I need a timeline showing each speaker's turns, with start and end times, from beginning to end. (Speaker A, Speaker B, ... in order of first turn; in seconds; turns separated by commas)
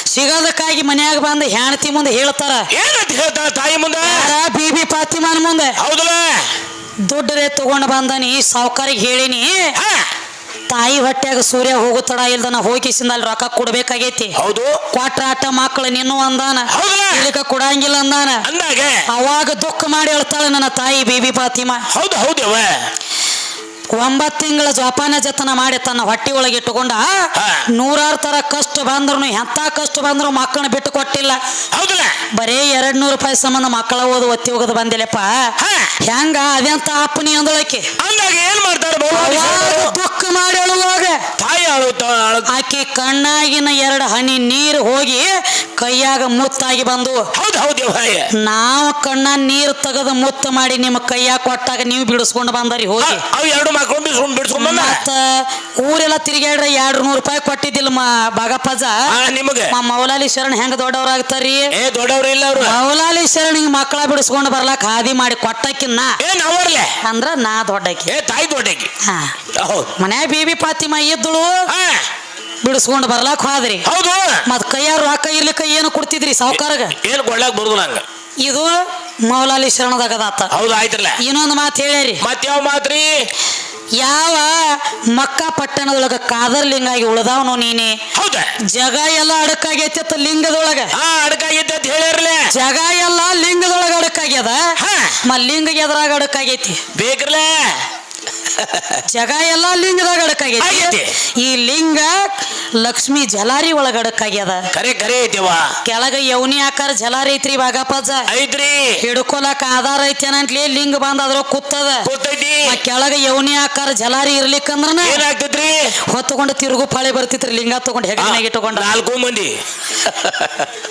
Speaker A: 0.1-2.7, Speaker B: 2.7-4.3, Speaker A: 4.0-5.8, Speaker B: 5.8-6.5, Speaker A: 7.1-9.7, Speaker B: 9.8-10.1, Speaker A: 10.7-14.3, Speaker B: 14.4-14.8, Speaker A: 14.9-18.4, Speaker B: 16.7-17.3, Speaker B: 18.4-19.0, Speaker A: 19.1-21.9, Speaker B: 21.9-22.7, Speaker A: 23.9-27.1, Speaker B: 27.4-27.6, Speaker A: 27.7-31.4, Speaker B: 31.7-32.2, Speaker A: 32.4-35.5, Speaker B: 35.6-35.9, Speaker A: 36.0-37.9, Speaker B: 38.0-40.0, Speaker A: 39.1-41.2, Speaker B: 41.4-42.5, Speaker A: 42.5-47.3, Speaker B: 47.3-48.3, Speaker A: 48.4-53.2, Speaker B: 53.0-55.0, Speaker A: 54.5-59.1, Speaker B: 59.1-59.7, Speaker A: 59.7-61.7, Speaker B: 61.7-62.8, Speaker A: 62.6-66.2, Speaker B: 66.2-67.0, Speaker A: 67.0-68.1, Speaker B: 68.1-68.9, Speaker A: 69.0-69.4, Speaker B: 69.6-70.0, Speaker A: 70.0-71.7, Speaker B: 71.7-72.1, Speaker A: 72.6-73.9, Speaker B: 73.8-74.4, Speaker A: 74.5-77.0, Speaker B: 76.5-78.0, Speaker A: 78.4-80.5, Speaker B: 80.5-81.2, Speaker A: 81.2-82.2, Speaker B: 82.2-83.1, Speaker A: 84.0-88.0, Speaker B: 88.1-88.5, Speaker A: 88.7-90.9, Speaker B: 90.9-92.5, Speaker A: 92.5-94.7, Speaker B: 94.8-95.2, Speaker A: 95.2-96.8, Speaker B: 96.9-97.8, Speaker B: 98.5-99.0, Speaker A: 99.0-104.7, Speaker B: 100.6-101.1, Speaker B: 104.7-105.7, Speaker A: 105.8-108.3, Speaker B: 108.3-109.0, Speaker A: 109.0-112.1, Speaker B: 112.0-112.8, Speaker A: 112.7-115.2, Speaker B: 115.0-115.9, Speaker A: 116.1-118.9, Speaker B: 118.2-120.7